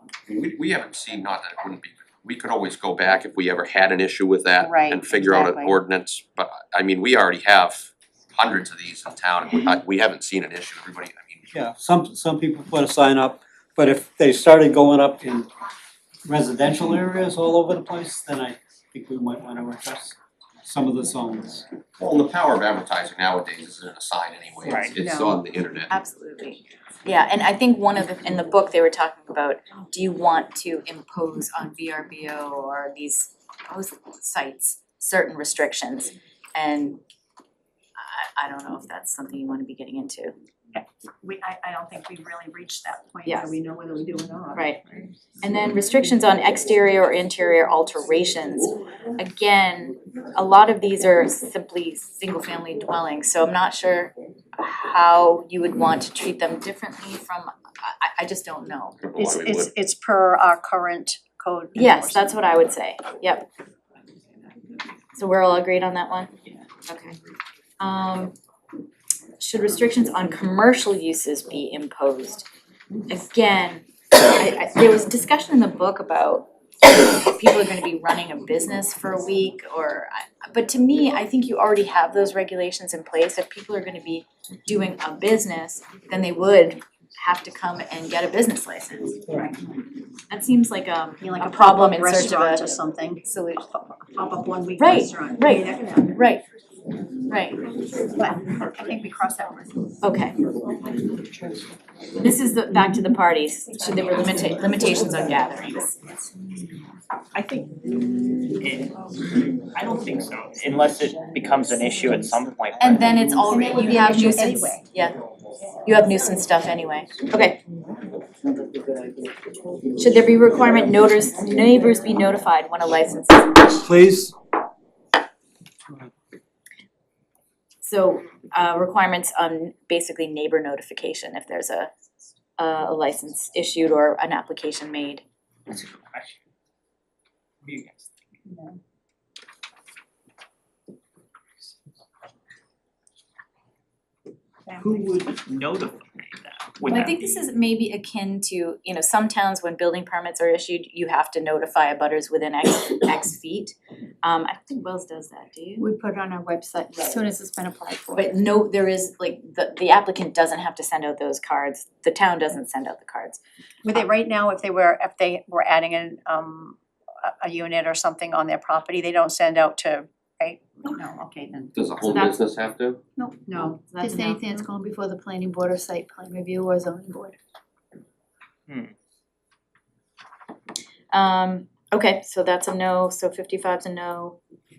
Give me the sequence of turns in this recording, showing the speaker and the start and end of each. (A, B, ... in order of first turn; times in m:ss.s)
0:00.3-0:11.5 A
0:04.6-0:05.8 B
0:11.5-0:15.5 C
0:16.2-0:21.6 C
0:22.0-0:25.9 A
0:24.6-0:25.0 D
0:24.9-0:25.4 B
0:25.9-0:37.0 E
0:38.0-0:40.3 E
0:40.7-0:44.7 B
0:44.6-0:44.8 E
0:45.4-0:59.0 E
0:59.0-0:59.7 A
0:59.2-1:02.3 B
1:01.8-1:03.5 E
1:05.2-1:06.3 E
1:06.9-1:07.2 E
1:07.8-1:08.3 E
1:09.4-1:12.5 E
1:13.1-1:29.2 E
1:30.3-1:33.7 E
1:31.2-1:36.2 B
1:34.8-1:36.4 E
1:37.3-1:37.6 E
1:38.1-1:39.9 B
1:40.0-1:40.4 E
1:42.2-1:46.0 E
1:47.3-1:47.8 D
1:48.6-1:49.0 D
1:49.6-1:53.4 D
1:52.8-1:55.2 E
1:53.5-1:54.8 B
1:55.8-1:57.6 E
2:00.0-2:03.8 E
2:03.8-2:04.3 C
2:07.8-2:11.9 E
2:12.6-2:15.2 E
2:15.7-2:16.4 D
2:17.6-2:18.1 D
2:18.5-2:18.8 B
2:24.8-2:27.4 D
2:26.9-2:35.9 E
2:35.8-2:38.3 F
2:37.0-2:37.2 E
2:38.1-2:44.0 E
2:43.8-2:51.8 B
2:51.8-2:53.0 A
2:52.1-2:52.4 E
2:53.2-2:54.0 B
2:53.9-2:54.4 E
2:54.0-2:57.4 F
2:58.7-2:58.9 D
3:01.1-3:04.4 E